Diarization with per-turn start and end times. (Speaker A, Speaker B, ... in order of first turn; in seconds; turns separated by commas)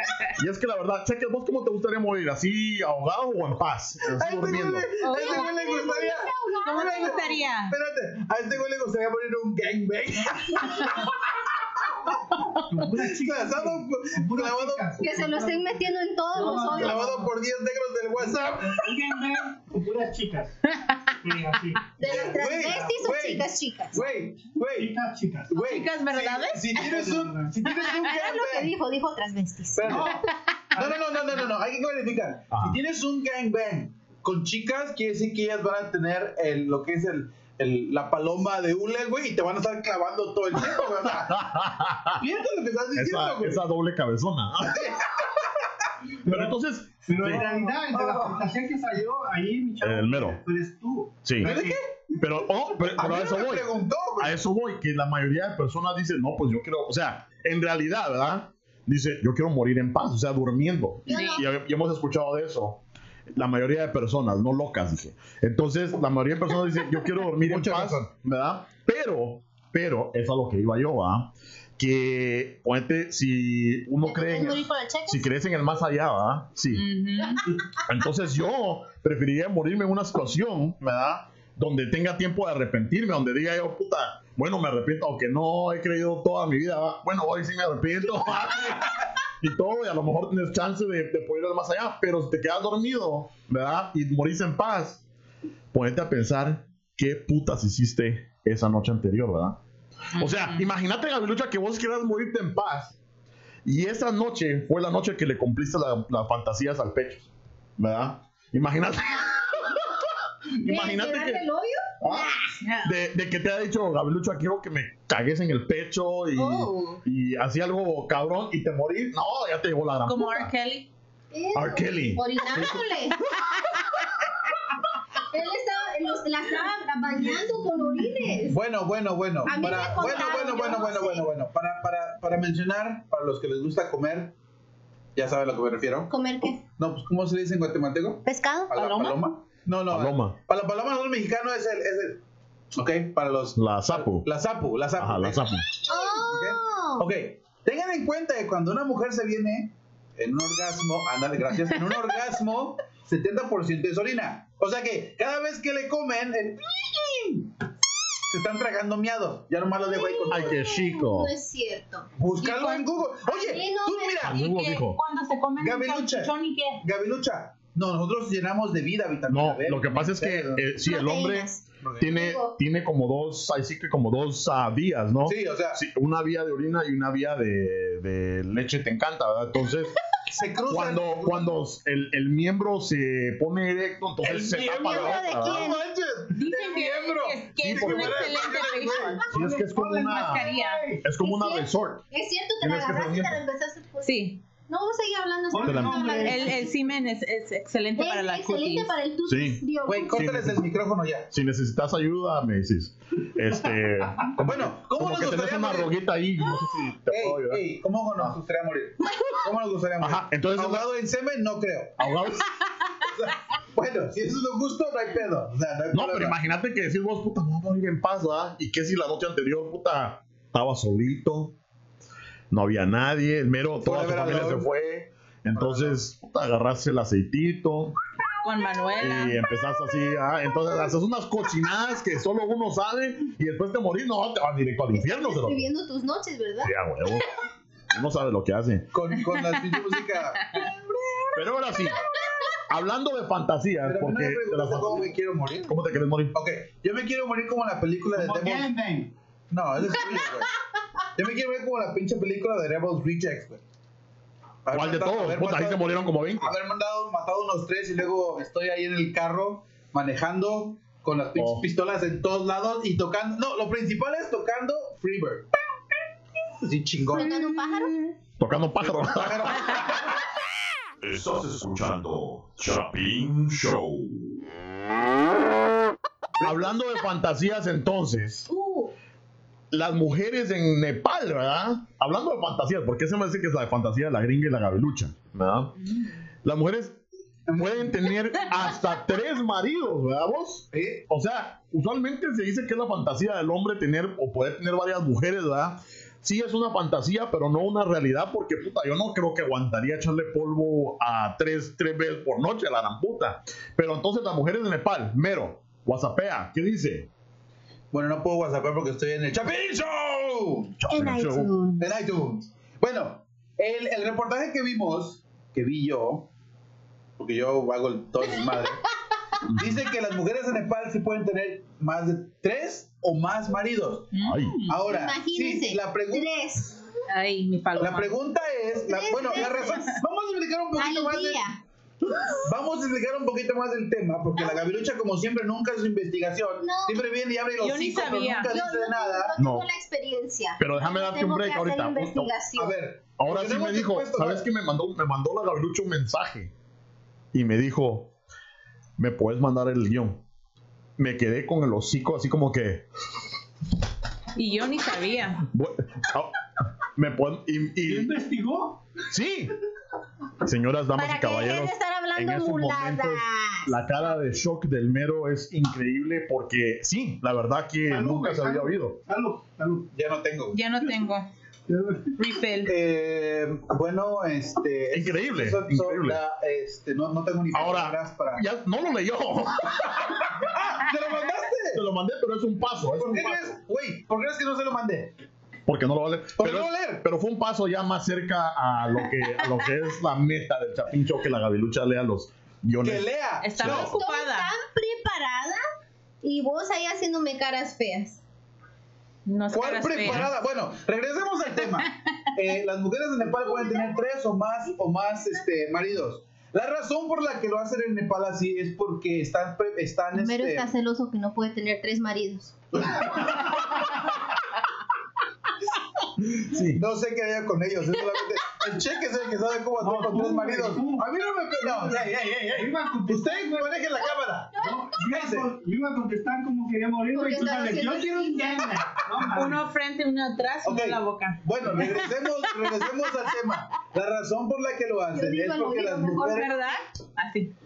Speaker A: 0.3-4.9, Speaker B: 4.1-14.9, Speaker C: 5.0-5.5, Speaker D: 5.1-7.2, Speaker C: 6.6-7.7, Speaker E: 12.6-17.3, Speaker D: 15.0-17.1, Speaker B: 16.7-19.0, Speaker E: 18.7-20.6, Speaker C: 20.7-21.1, Speaker E: 21.2-22.9, Speaker D: 22.0-24.0, Speaker B: 22.0-24.9, Speaker E: 24.8-25.5, Speaker B: 25.5-28.7, Speaker C: 25.5-26.9, Speaker E: 26.8-27.6, Speaker D: 28.0-29.9, Speaker B: 29.7-41.4, Speaker E: 29.8-30.3, Speaker A: 32.5-32.8, Speaker A: 40.6-42.2, Speaker B: 42.2-43.6, Speaker A: 42.9-45.0, Speaker B: 44.7-45.6, Speaker A: 46.2-47.4, Speaker E: 46.2-51.8, Speaker B: 47.3-48.5, Speaker A: 49.8-50.4, Speaker A: 51.2-51.5, Speaker B: 51.4-51.9, Speaker A: 52.2-62.8, Speaker B: 52.8-54.3, Speaker D: 61.1-61.4, Speaker C: 61.1-61.4, Speaker A: 63.3-76.8, Speaker B: 67.4-68.0, Speaker D: 74.0-75.3, Speaker C: 76.7-77.5, Speaker A: 77.8-95.0, Speaker A: 95.7-99.6, Speaker C: 100.1-100.7, Speaker A: 100.1-103.0, Speaker A: 103.6-107.3, Speaker A: 107.8-111.4, Speaker D: 110.6-112.4, Speaker A: 112.0-120.5, Speaker C: 112.6-112.9, Speaker D: 116.3-117.0, Speaker C: 120.0-120.9, Speaker D: 121.3-123.2, Speaker A: 121.5-122.8, Speaker D: 125.3-128.6, Speaker B: 128.5-134.3, Speaker D: 129.4-131.3, Speaker B: 135.2-136.1, Speaker D: 136.1-136.6, Speaker B: 136.8-142.2, Speaker D: 138.2-139.1, Speaker C: 138.8-139.1, Speaker A: 139.9-140.3, Speaker B: 142.7-157.5, Speaker A: 143.5-144.3, Speaker A: 145.0-145.6, Speaker D: 145.8-147.1, Speaker B: 158.3-160.6, Speaker D: 159.8-162.1, Speaker A: 160.3-161.3, Speaker B: 162.2-164.4, Speaker C: 162.4-162.9, Speaker D: 163.2-164.2, Speaker A: 164.2-165.0, Speaker C: 164.3-166.8, Speaker B: 165.6-170.7, Speaker A: 169.3-179.9, Speaker D: 170.8-172.6, Speaker B: 171.8-172.2, Speaker B: 175.2-175.8, Speaker B: 180.3-181.6, Speaker A: 180.7-185.8, Speaker B: 184.2-189.3, Speaker D: 184.8-185.8, Speaker C: 186.3-189.3, Speaker A: 187.6-188.5, Speaker E: 189.3-191.0, Speaker A: 189.3-190.5, Speaker C: 190.0-190.8, Speaker A: 191.0-192.0, Speaker D: 191.2-196.7, Speaker A: 192.6-193.4, Speaker C: 194.0-194.4, Speaker E: 195.5-196.6, Speaker A: 195.7-196.1, Speaker C: 196.2-198.9, Speaker D: 198.0-200.3, Speaker A: 199.2-199.6, Speaker B: 199.8-201.3, Speaker A: 200.1-200.6, Speaker A: 201.3-207.6, Speaker B: 204.4-205.9, Speaker B: 207.1-212.0, Speaker A: 210.0-210.9, Speaker A: 212.0-212.5, Speaker B: 213.0-216.4, Speaker A: 215.9-221.6, Speaker A: 222.5-227.9, Speaker B: 223.8-224.7, Speaker B: 225.5-226.0, Speaker C: 228.4-229.4, Speaker A: 229.0-235.7, Speaker D: 234.9-236.7, Speaker A: 236.6-237.3, Speaker A: 237.9-238.9, Speaker B: 238.9-240.7, Speaker A: 241.3-242.0, Speaker A: 242.6-245.1, Speaker B: 243.8-245.7, Speaker A: 245.7-246.3, Speaker B: 246.3-248.7, Speaker E: 248.1-249.1, Speaker B: 249.5-250.5, Speaker B: 251.1-253.6, Speaker B: 254.6-265.5, Speaker A: 254.7-256.5, Speaker A: 261.4-261.6, Speaker B: 266.6-267.5, Speaker D: 267.1-268.1, Speaker A: 268.4-270.1, Speaker B: 268.8-270.1, Speaker A: 271.0-274.4, Speaker B: 276.4-276.7, Speaker A: 276.4-278.5, Speaker D: 278.5-278.9, Speaker A: 279.7-285.7, Speaker A: 286.4-287.0, Speaker B: 287.5-288.1, Speaker A: 287.6-307.1, Speaker B: 290.7-291.0, Speaker B: 307.9-310.8, Speaker A: 310.8-311.5, Speaker D: 310.9-312.0, Speaker B: 311.8-316.3, Speaker B: 317.2-318.9, Speaker A: 319.4-319.8, Speaker B: 319.5-324.1, Speaker C: 324.1-324.8, Speaker A: 324.2-324.6, Speaker B: 324.6-326.3, Speaker D: 324.9-326.8, Speaker C: 327.1-328.1, Speaker B: 327.8-331.4, Speaker D: 328.8-329.9, Speaker D: 330.8-331.6, Speaker B: 332.4-339.3, Speaker D: 336.6-337.0, Speaker C: 337.6-338.5, Speaker D: 338.5-342.8, Speaker A: 339.4-339.6, Speaker A: 340.6-342.3, Speaker B: 342.6-344.4, Speaker A: 343.2-346.5, Speaker A: 347.3-348.1, Speaker A: 349.0-350.2, Speaker A: 351.0-352.9, Speaker C: 354.4-355.4, Speaker A: 355.5-356.3, Speaker A: 356.9-358.1, Speaker E: 357.8-358.8, Speaker A: 359.1-359.5, Speaker A: 360.4-369.0, Speaker D: 360.9-363.8, Speaker E: 367.9-369.9, Speaker B: 369.9-370.6, Speaker C: 370.5-371.3, Speaker E: 371.7-372.1, Speaker C: 372.1-372.7, Speaker B: 372.6-378.4, Speaker A: 374.9-376.2, Speaker A: 377.5-380.3, Speaker B: 380.2-381.8, Speaker A: 381.7-383.6, Speaker B: 382.9-385.1, Speaker A: 385.7-393.9, Speaker B: 386.4-387.0, Speaker B: 392.8-393.9, Speaker C: 393.4-394.5, Speaker D: 393.8-395.6, Speaker D: 396.2-398.2, Speaker C: 399.2-400.3, Speaker B: 399.5-410.6, Speaker A: 400.0-400.3, Speaker D: 403.3-404.0, Speaker D: 410.1-412.5, Speaker B: 412.8-413.6, Speaker A: 416.4-416.8, Speaker B: 416.6-425.5, Speaker E: 419.8-421.1, Speaker E: 421.6-423.8, Speaker E: 424.6-429.6, Speaker D: 427.1-428.7, Speaker C: 429.3-432.1, Speaker B: 430.6-436.5, Speaker D: 435.1-436.8, Speaker C: 436.3-437.5